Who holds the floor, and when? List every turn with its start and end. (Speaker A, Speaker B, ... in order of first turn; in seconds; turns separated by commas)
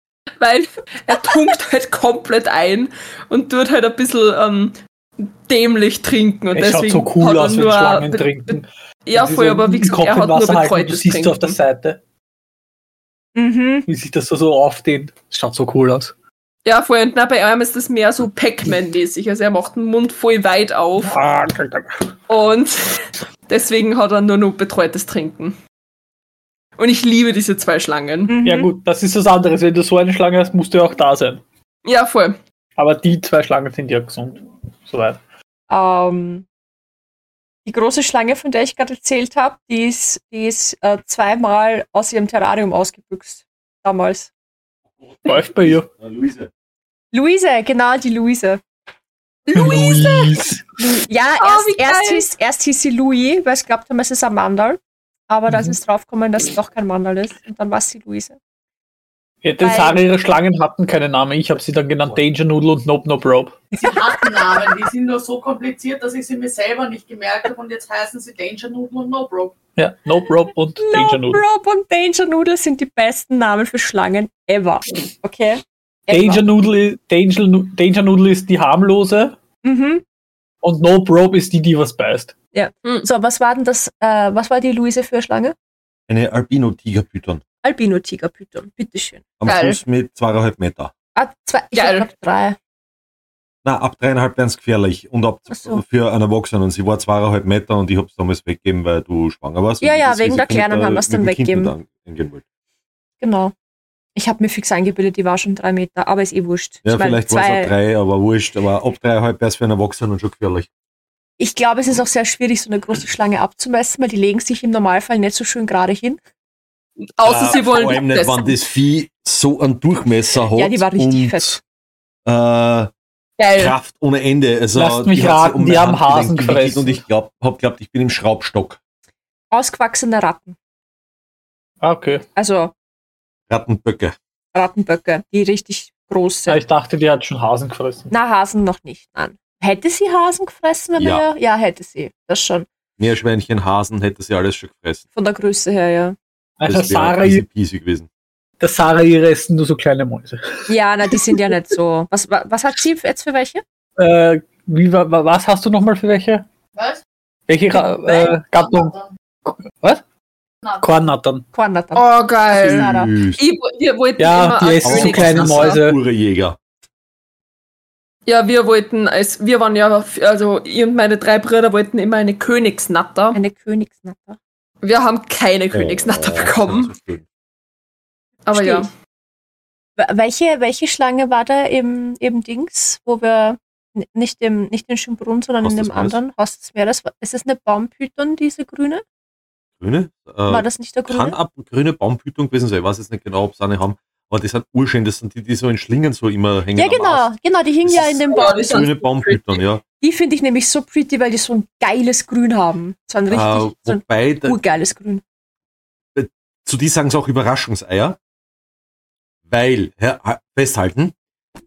Speaker A: 0.4-11.6, Speaker B: 6.5-12.0, Speaker C: 13.4-13.9, Speaker B: 13.9-16.1, Speaker A: 16.6-21.1, Speaker B: 21.0-22.1, Speaker A: 22.3-22.9, Speaker A: 23.5-25.6, Speaker A: 26.8-28.3, Speaker C: 28.3-28.7, Speaker B: 28.4-31.4, Speaker A: 31.9-32.4, Speaker B: 32.8-35.2, Speaker C: 35.7-36.5, Speaker C: 37.6-44.3, Speaker D: 45.0-46.5, Speaker B: 45.3-45.9, Speaker C: 47.1-48.6, Speaker A: 49.5-50.4, Speaker B: 49.5-50.6, Speaker C: 50.8-58.4, Speaker A: 51.4-52.3, Speaker B: 55.5-55.8, Speaker B: 59.4-63.6, Speaker C: 59.6-60.0, Speaker C: 63.7-64.1, Speaker E: 63.8-69.6, Speaker B: 69.8-71.4, Speaker C: 70.8-76.4, Speaker B: 76.1-79.4, Speaker C: 79.6-80.0, Speaker B: 80.6-82.3, Speaker C: 82.5-85.5, Speaker D: 86.1-87.4, Speaker C: 87.6-89.6, Speaker D: 89.4-90.9, Speaker A: 89.5-89.8, Speaker C: 91.2-92.6, Speaker A: 91.7-92.1, Speaker D: 93.6-102.4, Speaker C: 95.5-95.8, Speaker C: 99.8-101.7, Speaker C: 103.2-103.5, Speaker C: 104.2-107.7, Speaker D: 106.8-110.7, Speaker C: 111.4-116.2, Speaker A: 117.2-118.7, Speaker D: 117.2-121.6, Speaker C: 120.6-121.6, Speaker D: 122.3-122.9, Speaker A: 123.4-123.8, Speaker D: 123.5-128.8, Speaker B: 124.7-127.0, Speaker C: 129.5-130.6, Speaker B: 131.8-132.2, Speaker C: 132.4-132.7, Speaker D: 133.5-134.2, Speaker C: 134.5-136.6, Speaker B: 136.5-138.1, Speaker C: 138.1-142.7, Speaker D: 141.0-141.2, Speaker D: 143.0-145.1, Speaker C: 145.2-146.2, Speaker B: 146.6-147.4, Speaker D: 146.7-148.1, Speaker B: 148.6-151.4, Speaker C: 150.7-153.6, Speaker B: 154.0-156.5, Speaker B: 157.5-158.9, Speaker C: 157.7-158.3, Speaker B: 159.5-160.0, Speaker B: 160.8-161.5, Speaker C: 161.5-162.1, Speaker A: 161.9-165.8, Speaker D: 162.5-163.4, Speaker C: 162.6-163.1, Speaker B: 164.2-166.0, Speaker D: 164.8-166.6, Speaker A: 168.3-173.4, Speaker C: 173.3-174.4, Speaker A: 174.8-176.9, Speaker D: 175.7-177.2, Speaker A: 178.4-178.9, Speaker C: 178.5-178.9, Speaker C: 180.0-189.0, Speaker D: 185.6-186.2, Speaker D: 189.8-197.3, Speaker C: 190.5-191.4, Speaker C: 196.8-198.9, Speaker D: 197.8-199.8, Speaker A: 198.3-199.6, Speaker C: 200.0-205.2, Speaker D: 203.3-204.6, Speaker D: 206.2-208.2, Speaker D: 209.5-211.2